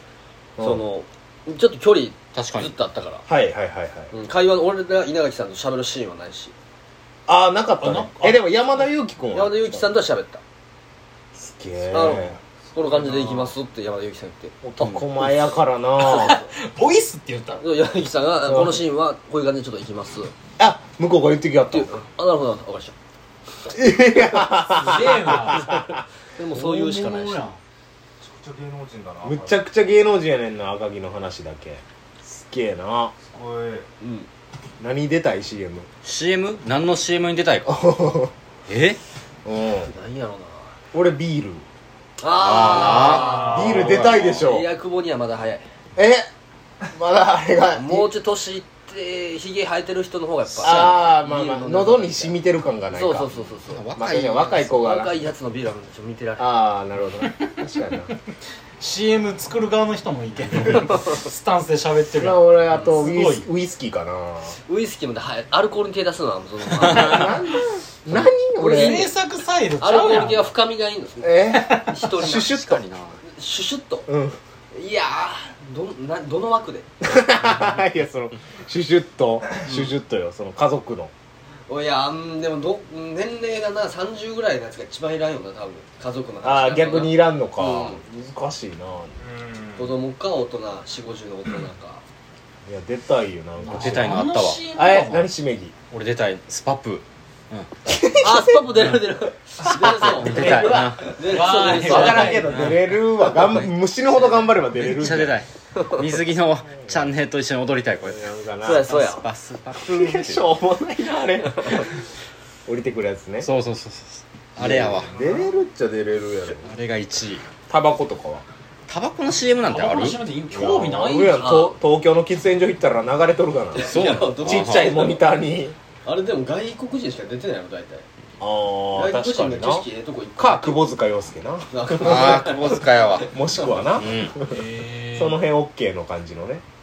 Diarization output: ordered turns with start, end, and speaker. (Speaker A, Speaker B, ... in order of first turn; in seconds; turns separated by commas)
Speaker A: 0.6-0.8, Speaker B: 0.6-3.2, Speaker C: 2.3-2.8, Speaker A: 3.3-4.1, Speaker B: 4.1-6.5, Speaker A: 7.3-9.9, Speaker D: 7.8-8.7, Speaker B: 9.3-10.4, Speaker A: 11.4-12.4, Speaker B: 11.9-14.6, Speaker D: 12.8-13.5, Speaker A: 14.6-16.4, Speaker C: 14.8-15.1, Speaker D: 16.0-17.6, Speaker B: 16.0-16.4, Speaker B: 17.6-20.3, Speaker A: 18.5-18.8, Speaker A: 20.6-22.0, Speaker B: 21.7-22.9, Speaker A: 23.7-25.9, Speaker D: 24.7-25.9, Speaker B: 25.6-25.8, Speaker B: 26.4-27.4, Speaker D: 26.5-27.6, Speaker E: 28.2-29.6, Speaker A: 29.2-33.1, Speaker E: 33.2-33.9, Speaker B: 34.0-34.3, Speaker A: 34.8-35.9, Speaker C: 36.0-37.8, Speaker A: 37.7-38.3, Speaker C: 38.7-39.0, Speaker A: 39.5-39.9, Speaker B: 39.8-40.7, Speaker A: 40.9-41.6, Speaker B: 42.2-45.7, Speaker C: 42.4-44.3, Speaker D: 42.8-44.2, Speaker A: 43.4-44.7, Speaker A: 46.0-46.3, Speaker A: 46.9-48.1, Speaker B: 47.7-52.3, Speaker A: 50.6-53.3, Speaker B: 52.9-53.8, Speaker C: 53.7-54.7, Speaker A: 54.0-55.3, Speaker B: 54.7-56.5, Speaker A: 56.4-58.1, Speaker D: 58.8-63.5, Speaker A: 62.2-64.6, Speaker B: 64.7-67.2, Speaker A: 66.7-69.1, Speaker C: 67.1-67.3, Speaker D: 68.6-70.5, Speaker B: 69.8-72.5, Speaker A: 71.2-72.8, Speaker D: 71.6-71.8, Speaker C: 72.4-73.2, Speaker B: 73.2-74.1, Speaker A: 74.1-74.4, Speaker B: 74.7-76.9, Speaker A: 77.0-81.1, Speaker B: 81.7-88.0, Speaker A: 86.4-89.2, Speaker E: 89.2-90.0, Speaker B: 89.8-92.0, Speaker A: 92.7-94.2, Speaker D: 93.6-95.3, Speaker C: 93.7-94.7, Speaker A: 94.7-95.7, Speaker C: 95.9-97.7, Speaker A: 97.9-98.6, Speaker B: 98.2-102.7, Speaker C: 99.8-102.9, Speaker D: 100.0-102.8, Speaker A: 101.7-105.4, Speaker C: 103.4-110.5, Speaker A: 106.6-107.1, Speaker A: 108.0-108.9, Speaker B: 108.6-109.2, Speaker A: 109.8-111.9, Speaker A: 112.7-113.5, Speaker C: 113.4-115.2, Speaker A: 114.6-116.8, Speaker C: 116.6-117.5, Speaker A: 117.7-118.4, Speaker C: 118.9-120.2, Speaker D: 119.7-121.5, Speaker A: 120.5-125.8, Speaker B: 121.2-121.8, Speaker B: 123.7-125.2, Speaker C: 123.7-125.1, Speaker B: 126.0-128.1, Speaker A: 128.4-132.6, Speaker B: 128.9-130.9, Speaker B: 131.7-133.3, Speaker C: 132.0-133.3, Speaker A: 133.3-136.6, Speaker C: 134.0-134.4, Speaker D: 134.4-135.4